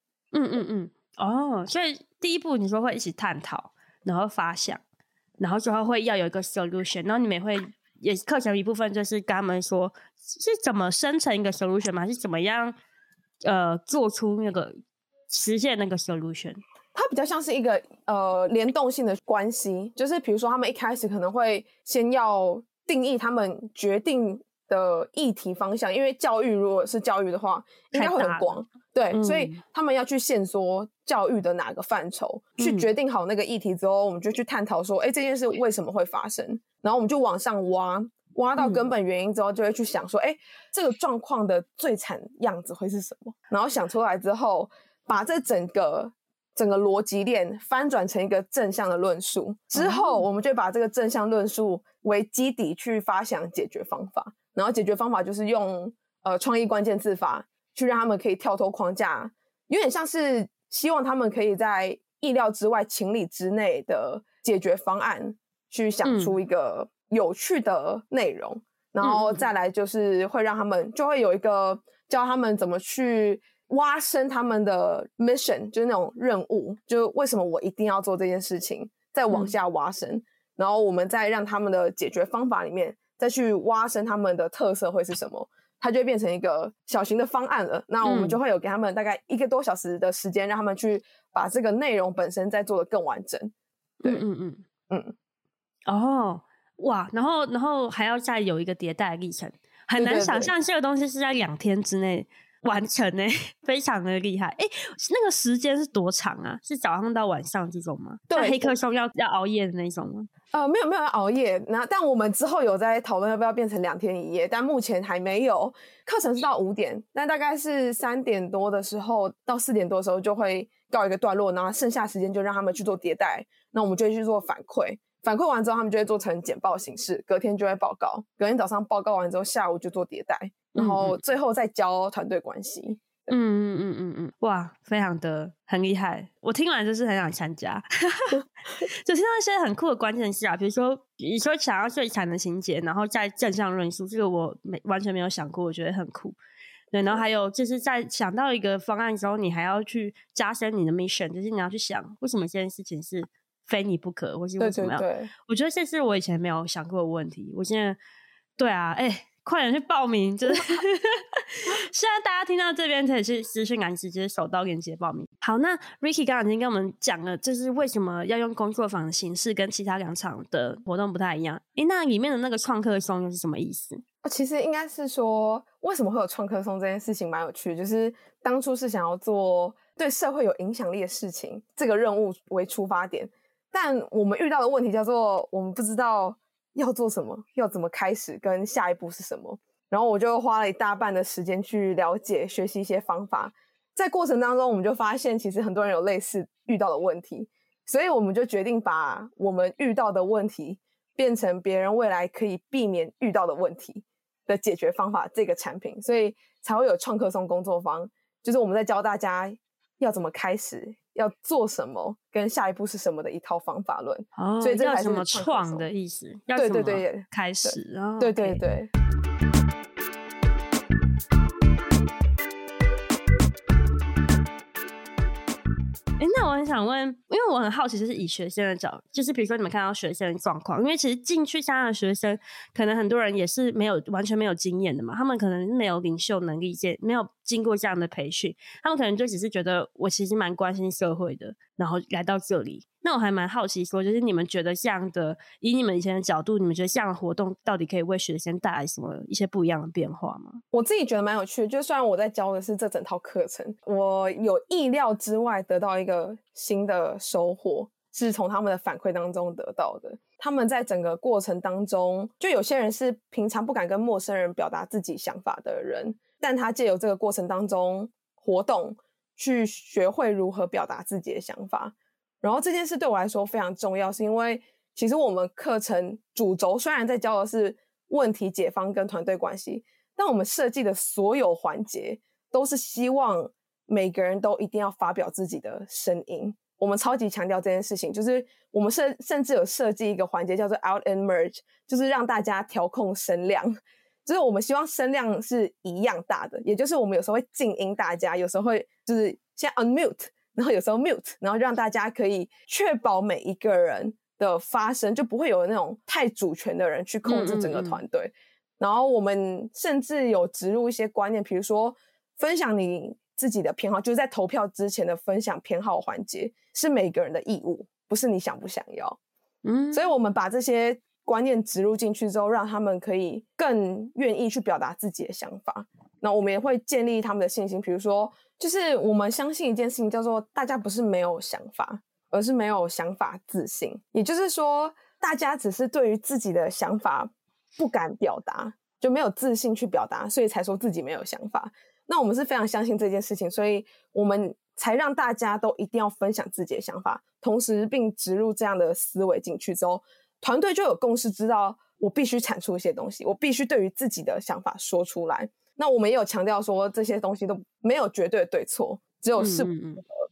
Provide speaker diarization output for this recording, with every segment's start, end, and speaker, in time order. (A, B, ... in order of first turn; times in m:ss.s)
0:00.3-0:04.8 A
0:05.4-0:12.8 A
0:13.4-0:16.6 A
0:17.0-1:34.2 B
0:27.9-0:28.6 A
0:29.1-0:29.6 A
0:32.6-0:32.9 A
0:38.6-0:38.8 A
0:49.8-0:50.2 A
1:06.0-1:06.3 A
1:09.0-1:09.5 A
1:28.0-1:28.4 A
1:34.0-1:34.6 A
1:35.9-1:50.3 A
1:40.0-1:40.5 B
1:48.3-1:48.7 B
1:50.5-2:13.3 B
2:10.8-2:11.2 A
2:13.3-2:26.4 A
2:26.9-2:38.0 A
2:34.6-2:35.3 B
2:38.6-2:54.0 A
2:54.2-3:35.9 B
3:34.4-3:38.6 A
3:36.6-3:38.9 B
3:46.2-4:10.6 A
4:10.7-5:19.2 B
5:07.3-5:08.0 A
5:19.6-5:20.1 A
5:19.9-5:59.7 B
5:59.4-6:00.0 A